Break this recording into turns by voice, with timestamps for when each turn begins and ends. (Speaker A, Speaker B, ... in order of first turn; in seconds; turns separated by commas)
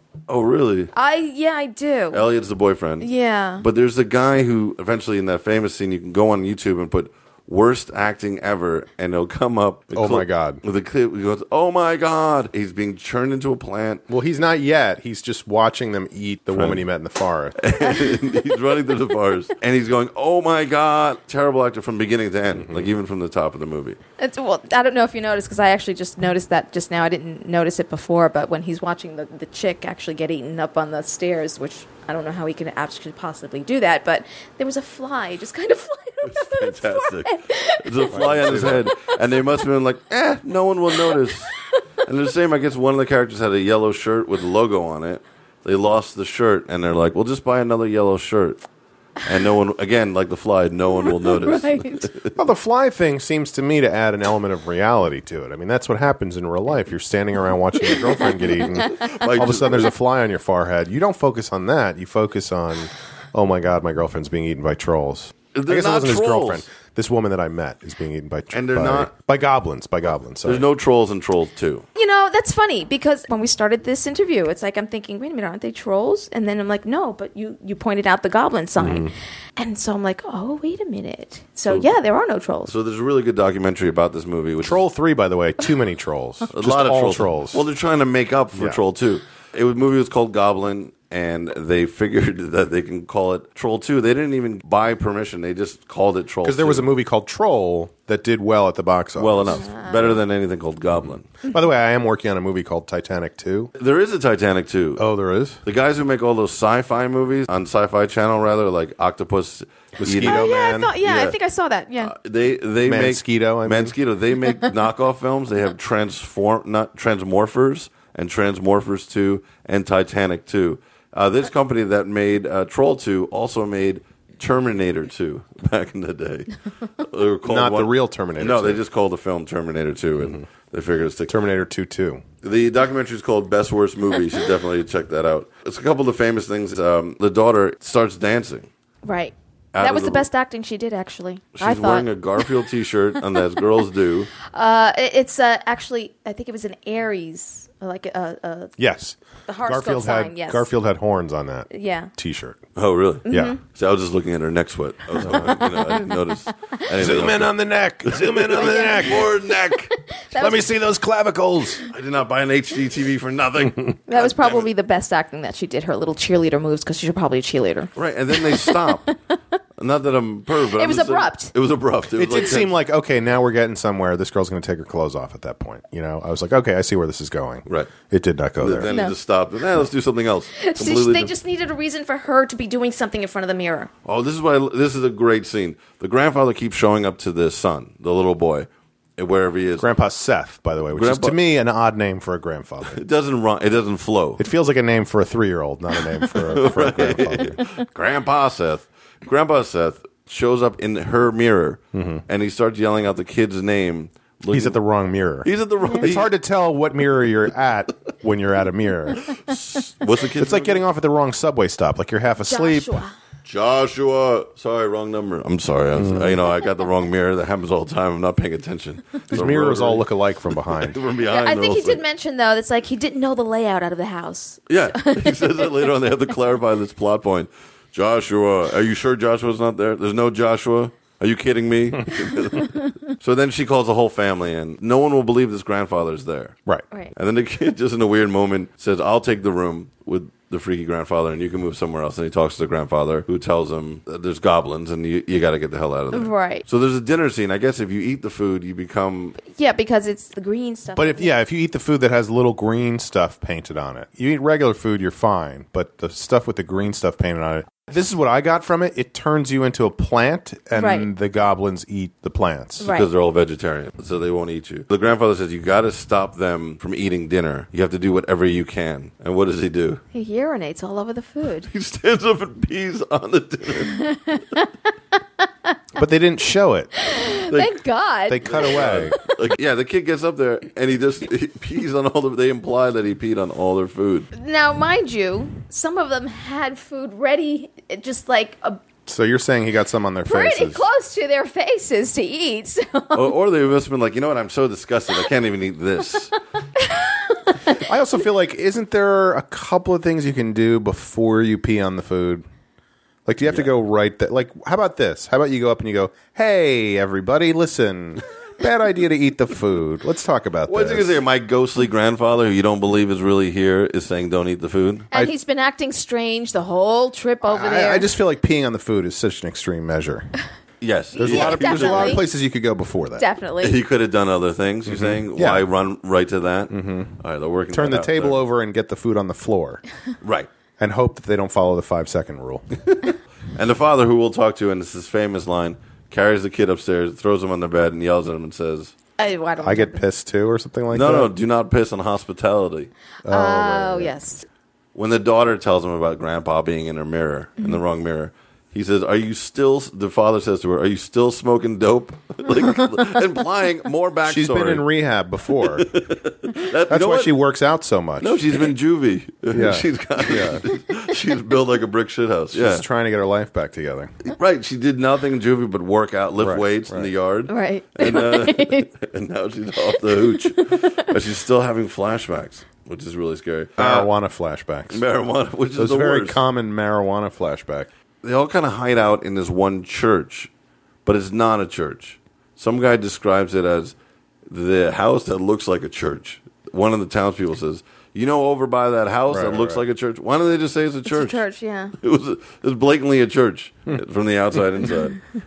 Speaker A: 0.3-0.9, Speaker B: 0.9-2.2, Speaker A: 2.1-14.0, Speaker B: 3.0-3.6, Speaker C: 9.9-10.6, Speaker C: 14.1-17.7, Speaker A: 16.5-16.8, Speaker A: 17.6-24.0, Speaker C: 22.6-22.9, Speaker B: 24.2-38.1, Speaker A: 36.3-41.5, Speaker C: 38.1-38.9, Speaker A: 42.0-48.6, Speaker A: 49.2-52.4, Speaker B: 51.0-52.1, Speaker C: 52.4-70.7, Speaker A: 58.8-59.9, Speaker A: 65.5-66.7, Speaker A: 68.5-69.1, Speaker A: 70.4-71.8, Speaker B: 72.0-82.7, Speaker C: 78.8-79.1, Speaker A: 82.7-84.8, Speaker C: 84.6-87.7, Speaker A: 86.5-96.9, Speaker C: 88.5-88.8, Speaker C: 96.4-99.6, Speaker A: 99.2-101.3, Speaker B: 99.5-100.2, Speaker C: 101.0-103.7, Speaker A: 103.8-105.0, Speaker C: 105.0-105.6, Speaker A: 105.7-111.3, Speaker C: 110.0-110.9, Speaker B: 110.2-112.1, Speaker A: 112.0-131.4, Speaker C: 112.8-114.0, Speaker C: 127.5-128.8, Speaker C: 130.2-130.4, Speaker C: 131.3-132.2, Speaker A: 132.4-138.7, Speaker B: 139.0-142.5, Speaker A: 139.7-140.3, Speaker A: 141.6-144.3, Speaker B: 144.5-148.8, Speaker C: 148.8-152.6, Speaker B: 149.5-150.7, Speaker B: 151.7-152.1, Speaker A: 152.8-159.9, Speaker B: 153.3-153.6, Speaker C: 153.3-153.6, Speaker B: 155.3-156.1, Speaker C: 157.0-159.3, Speaker B: 158.6-159.3, Speaker B: 160.0-160.7, Speaker C: 160.4-161.8, Speaker A: 161.9-164.7, Speaker B: 164.1-168.9, Speaker A: 168.0-169.1, Speaker A: 169.8-172.7, Speaker B: 170.7-171.5, Speaker C: 172.1-178.9, Speaker A: 177.7-177.9, Speaker A: 178.6-181.3, Speaker B: 178.9-179.2, Speaker B: 180.6-183.9, Speaker A: 184.1-189.9, Speaker C: 189.8-193.0, Speaker A: 190.9-191.4, Speaker A: 192.9-194.4, Speaker C: 194.4-197.6, Speaker A: 196.3-204.8, Speaker C: 201.9-202.2, Speaker C: 204.5-209.3, Speaker A: 205.4-206.3, Speaker A: 209.3-210.8, Speaker C: 210.4-213.0, Speaker B: 212.4-213.2, Speaker A: 213.4-222.0, Speaker C: 216.0-216.4, Speaker C: 219.3-221.0, Speaker B: 221.3-225.9, Speaker A: 224.7-236.6, Speaker A: 237.2-249.4, Speaker B: 246.1-246.6, Speaker B: 249.4-251.3, Speaker C: 251.0-262.9, Speaker B: 260.8-261.1, Speaker B: 262.8-263.1, Speaker A: 262.8-270.0, Speaker B: 270.1-271.7, Speaker A: 271.7-274.0, Speaker B: 273.9-274.7, Speaker C: 276.0-276.9, Speaker B: 277.0-279.2, Speaker A: 277.5-277.8, Speaker C: 278.3-279.2, Speaker A: 278.4-284.3, Speaker B: 284.3-288.8, Speaker C: 289.1-290.9, Speaker B: 290.3-293.3, Speaker A: 293.1-296.3, Speaker B: 296.8-297.8, Speaker C: 297.8-302.4, Speaker C: 303.3-311.1, Speaker A: 310.7-315.1, Speaker B: 315.1-318.1, Speaker C: 317.5-320.3, Speaker A: 320.8-322.2, Speaker B: 321.1-322.2, Speaker C: 321.2-323.2, Speaker B: 323.2-323.8, Speaker A: 323.6-328.4, Speaker C: 324.9-325.7, Speaker C: 326.7-327.1, Speaker C: 327.7-329.8, Speaker A: 330.2-330.5, Speaker C: 330.8-332.7, Speaker A: 333.6-338.9, Speaker B: 339.2-340.0, Speaker C: 339.6-341.3, Speaker A: 340.9-342.9, Speaker C: 343.2-344.2, Speaker B: 343.3-344.4, Speaker A: 344.9-354.9, Speaker C: 354.3-356.0, Speaker A: 355.6-357.4, Speaker C: 356.9-358.6, Speaker A: 358.2-362.9, Speaker C: 359.5-360.7, Speaker C: 362.5-364.1, Speaker A: 364.2-374.1, Speaker C: 366.4-367.1, Speaker B: 367.5-368.9, Speaker B: 370.1-371.1, Speaker C: 373.8-375.0, Speaker A: 374.9-376.4, Speaker C: 375.8-377.9, Speaker A: 378.2-380.5, Speaker A: 381.1-383.9, Speaker A: 384.5-391.4, Speaker C: 389.3-389.8, Speaker B: 391.1-391.9, Speaker A: 392.0-395.2